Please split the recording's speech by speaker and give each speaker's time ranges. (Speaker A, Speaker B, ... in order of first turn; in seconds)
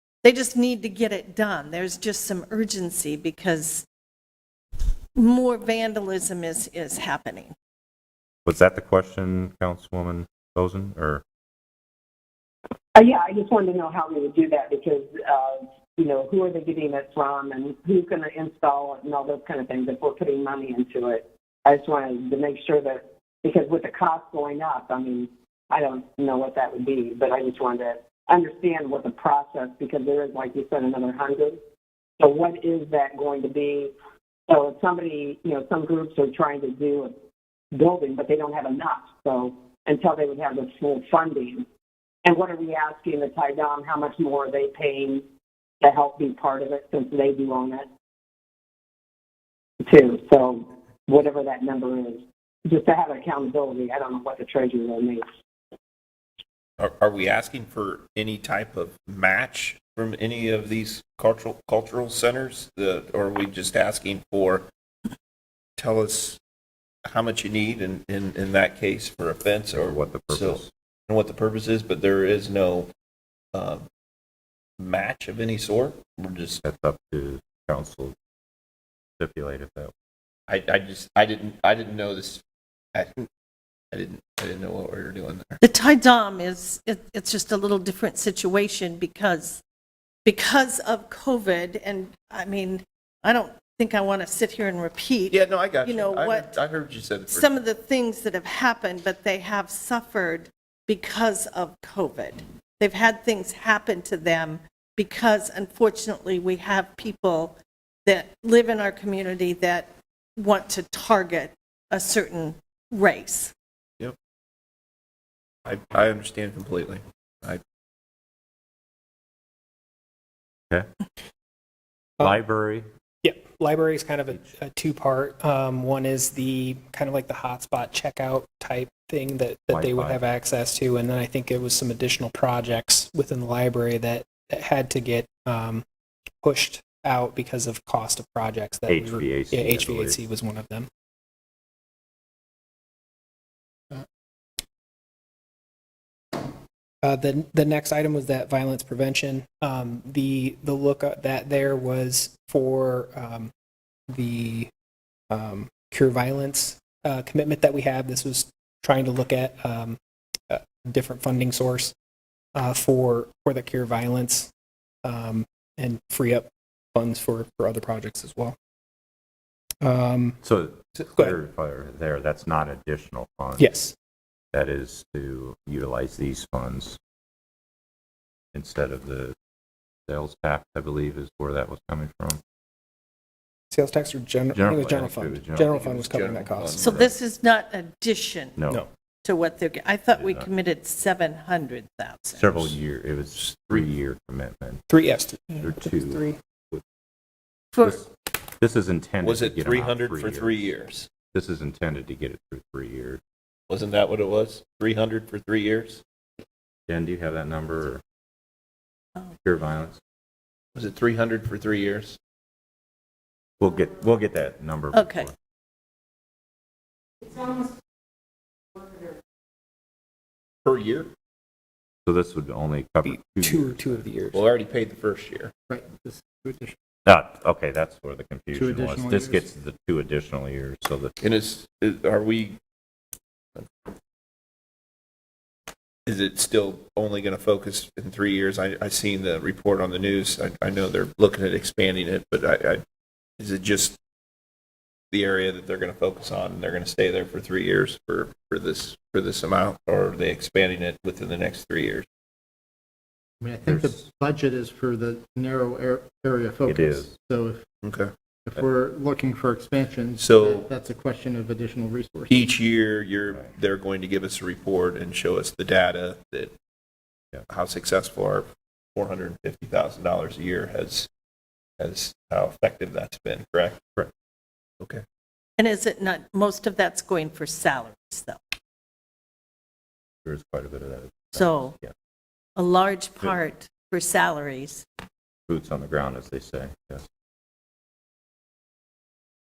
Speaker A: 0.2-3.9, 5.2-7.5, 85.6-89.6, 90.2-96.6, 97.3-113.5, 186.8-188.6, 189.2-192.5, 197.7-198.1, 214.9-215.3, 275.6-278.4, 281.3-281.8, 282.6-284.9
Speaker B: 8.5-11.2, 69.8-70.7, 76.6-78.2, 79.2-79.9, 122.2-122.9, 129.7-130.2, 138.9-140.2, 170.4-173.7, 174.5-177.0, 178.5-179.4, 180.1-182.4, 184.5-185.8, 188.6-188.9, 190.1-190.5, 192.3-194.8, 195.6-196.8, 198.6-200.7, 201.3-203.2, 206.9-208.0, 209.4-210.0, 213.6-215.3, 222.1-224.0, 227.1-231.1, 253.7-253.9, 256.7-257.1, 280.2-281.9, 285.5-287.1
Speaker C: 12.9-31.6, 32.2-33.9, 34.5-37.1, 37.7-41.6, 42.2-45.2, 45.8-47.9, 49.8-55.2
Speaker D: 56.8-64.7, 65.8-66.4, 67.1-72.9, 73.5-73.9, 74.8-76.6, 80.5-82.4, 82.9-83.3, 83.9-85.6, 95.3-97.5, 115.7-117.6, 185.7-187.1, 193.3-193.9, 199.2-201.1, 203.7-206.0, 210.8-212.2, 220.7-221.1, 224.3-225.5, 231.2-232.6, 236.1-242.8, 243.4-244.0, 245.1-252.1, 257.8-258.1, 260.2-260.7, 262.3-266.5, 267.5-271.1, 271.8-273.8
Speaker E: 123.2-135.8, 136.4-140.9, 147.0-153.5, 154.1-154.7, 155.3-160.0, 160.5-161.9, 162.6-164.5, 165.0-168.6, 169.8-170.4, 173.6-173.9, 183.7-186.9, 194.9-196.4, 223.0-224.4
Speaker F: 225.7-226.8, 228.5-229.5, 253.4-257.6, 258.5-262.4